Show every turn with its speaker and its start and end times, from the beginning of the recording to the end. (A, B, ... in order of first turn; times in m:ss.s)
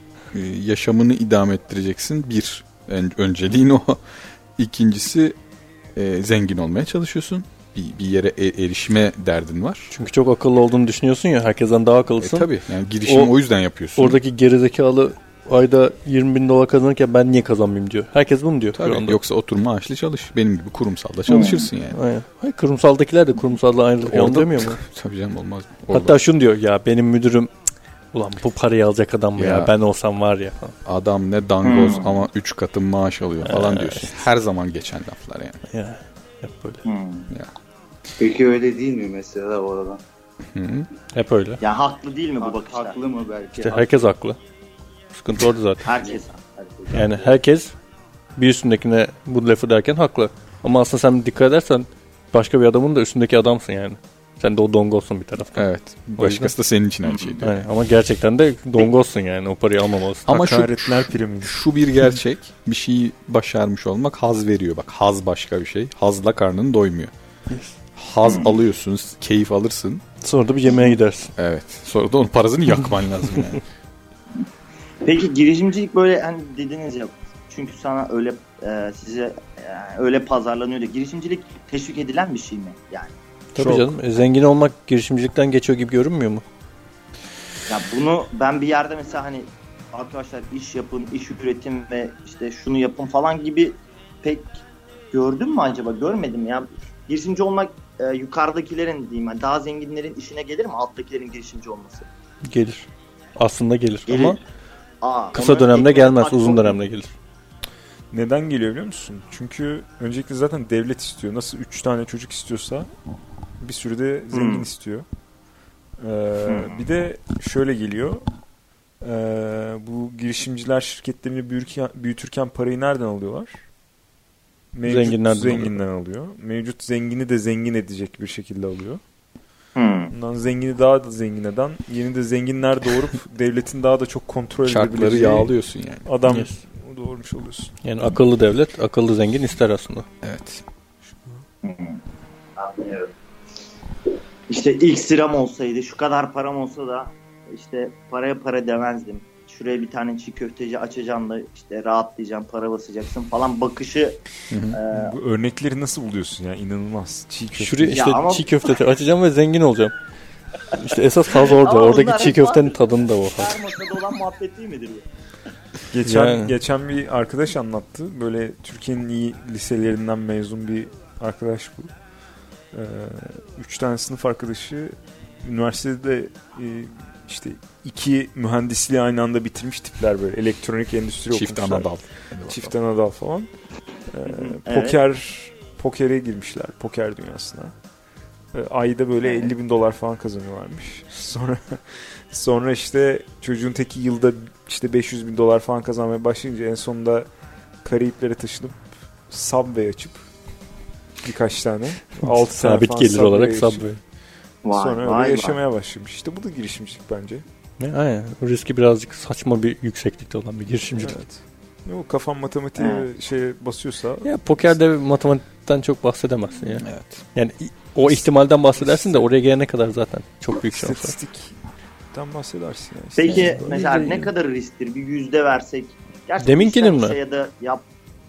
0:00.3-0:04.0 A
0:04.6-0:05.4 A
0:06.0-0:09.9 A
0:09.9-0:12.5 B
0:12.2-0:14.2 A
0:13.1-0:13.4 B
0:14.0-0:19.2 B
0:18.8-0:22.0 A
0:21.3-0:21.7 C
0:21.9-0:24.8 B
0:24.1-0:26.2 A
0:25.9-0:27.5 B
0:28.1-0:30.8 B
0:29.4-0:29.7 A
0:30.8-0:35.6 A
0:31.6-0:32.2 C
0:33.4-0:34.1 B
0:35.7-0:36.8 B
0:36.8-0:37.3 C
0:38.2-0:40.0 D
0:40.5-0:40.9 A
0:41.1-0:41.6 B
0:41.6-0:43.0 C
0:42.4-0:44.1 D
0:43.6-0:44.4 B
0:45.1-0:45.9 B
0:45.8-0:47.2 C
0:46.9-0:47.7 B
0:48.4-0:56.5 B
0:55.5-0:57.7 A
0:57.0-0:57.4 C
0:57.4-1:00.3 B
1:00.3-1:07.1 A
1:00.3-1:01.6 E
1:08.0-1:10.0 A
1:08.2-1:08.6 C
1:10.2-1:11.3 B
1:11.4-1:13.6 A
1:15.0-1:23.2 C
1:23.5-1:26.4 B
1:23.6-1:23.9 E
1:27.7-1:42.1 C
1:42.4-1:44.4 B
1:44.1-1:44.4 C
1:45.0-1:46.8 C
1:45.3-1:47.1 B
1:48.1-1:52.9 E
1:53.6-1:55.0 E
1:54.3-1:54.7 C
1:56.0-1:58.2 E
1:56.4-1:56.8 C
1:59.0-2:03.6 E
2:04.7-2:09.0 E
2:04.8-2:05.8 B
2:09.8-2:10.1 C
2:10.1-2:15.5 E
2:14.6-2:16.1 A
2:16.0-2:17.7 E
2:16.3-2:16.6 B
2:17.8-2:20.1 B
2:20.2-2:20.6 A
2:21.6-2:22.0 C
2:22.6-2:23.1 C
2:24.5-2:35.2 C
2:34.5-2:34.8 A
2:34.9-2:38.0 E
2:37.6-2:40.0 B
2:37.9-2:38.8 C
2:40.7-2:43.7 B
2:41.3-2:45.1 C
2:45.9-2:51.9 E
2:46.0-2:46.5 B
2:52.7-3:01.9 E
3:01.3-3:02.7 A
3:02.5-3:03.5 E
3:04.1-3:07.7 E
3:04.3-3:05.0 C
3:08.5-3:17.3 E
3:09.2-3:09.5 C
3:17.8-3:20.3 E
3:21.2-3:23.8 E
3:22.2-3:24.0 B
3:24.6-3:25.6 C
3:24.7-3:27.4 E
3:27.8-3:31.2 B
3:31.0-3:34.3 E
3:32.8-3:33.1 C
3:34.2-3:41.2 B
3:36.8-3:37.2 A
3:38.9-3:39.2 E
3:40.7-3:41.5 E
3:42.1-3:43.9 E
3:43.2-3:47.8 C
3:43.3-3:44.3 B
3:46.4-3:47.2 B